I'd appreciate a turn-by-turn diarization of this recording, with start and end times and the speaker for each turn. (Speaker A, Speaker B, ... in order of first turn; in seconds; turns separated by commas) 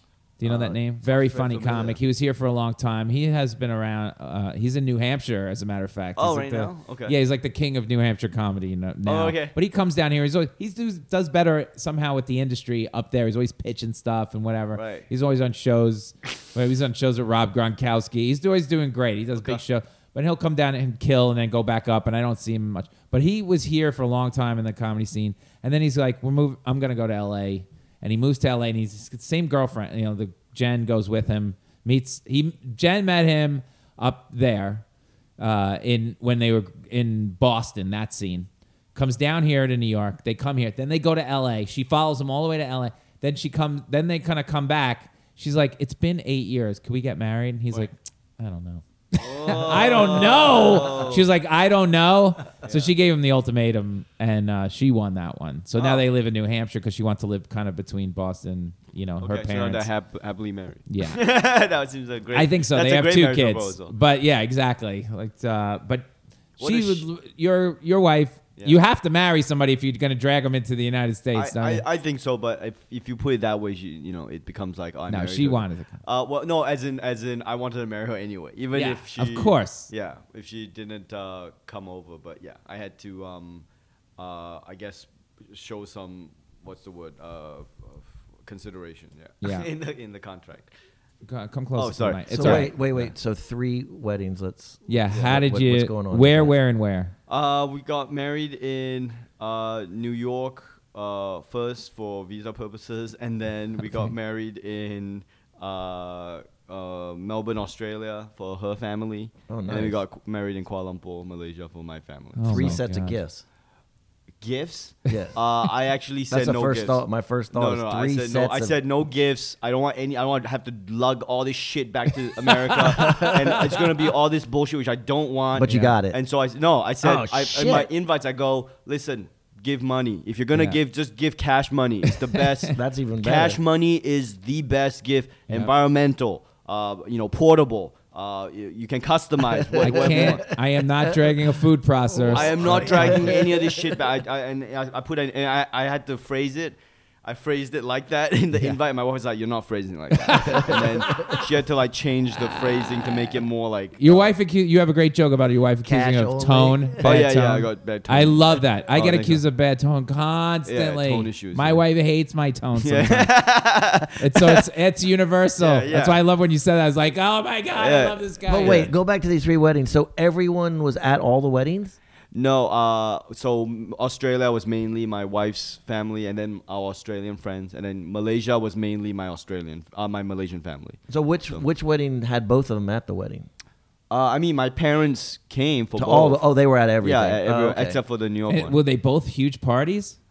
Speaker A: 0.4-34.8, Speaker B: 0.4-2.0, Speaker B: 6.2-7.1, Speaker B: 9.1-9.6, Speaker B: 14.7-15.1, Speaker B: 19.4-19.6, Speaker A: 35.4-59.9, Speaker B: 49.2-51.3, Speaker B: 52.6-52.9, Speaker B: 55.8-56.0, Speaker B: 59.2-63.9, Speaker A: 60.9-61.2, Speaker A: 62.3-66.1, Speaker B: 66.6-67.0, Speaker A: 66.6-71.8, Speaker B: 71.3-83.6, Speaker A: 75.1-76.0, Speaker A: 78.7-79.9, Speaker B: 84.2-90.7, Speaker A: 89.4-89.7, Speaker A: 91.2-93.1, Speaker B: 91.7-92.7, Speaker C: 92.3-96.5, Speaker A: 94.9-97.1, Speaker B: 97.3-112.8, Speaker A: 103.8-104.1, Speaker C: 109.5-110.0, Speaker A: 112.3-113.2, Speaker C: 112.5-113.4, Speaker B: 114.4-140.5, Speaker C: 115.1-115.4, Speaker C: 116.3-118.8, Speaker C: 122.7-123.9, Speaker C: 125.5-126.2, Speaker A: 125.6-125.9, Speaker C: 127.0-127.9, Speaker A: 130.5-130.8, Speaker C: 132.7-133.6, Speaker C: 139.6-140.3, Speaker A: 139.8-143.3, Speaker C: 142.1-143.9, Speaker B: 142.3-154.3, Speaker A: 150.2-150.8, Speaker C: 150.5-151.4, Speaker A: 154.0-163.3, Speaker C: 155.8-157.1, Speaker B: 157.0-159.4, Speaker B: 160.7-161.8, Speaker B: 162.8-164.6, Speaker A: 164.2-168.9, Speaker B: 165.6-166.2, Speaker B: 167.8-168.9, Speaker C: 168.4-171.9, Speaker B: 172.3-181.0, Speaker C: 181.1-183.5, Speaker B: 184.1-186.4, Speaker C: 185.9-188.0, Speaker B: 187.0-188.8, Speaker A: 188.5-190.2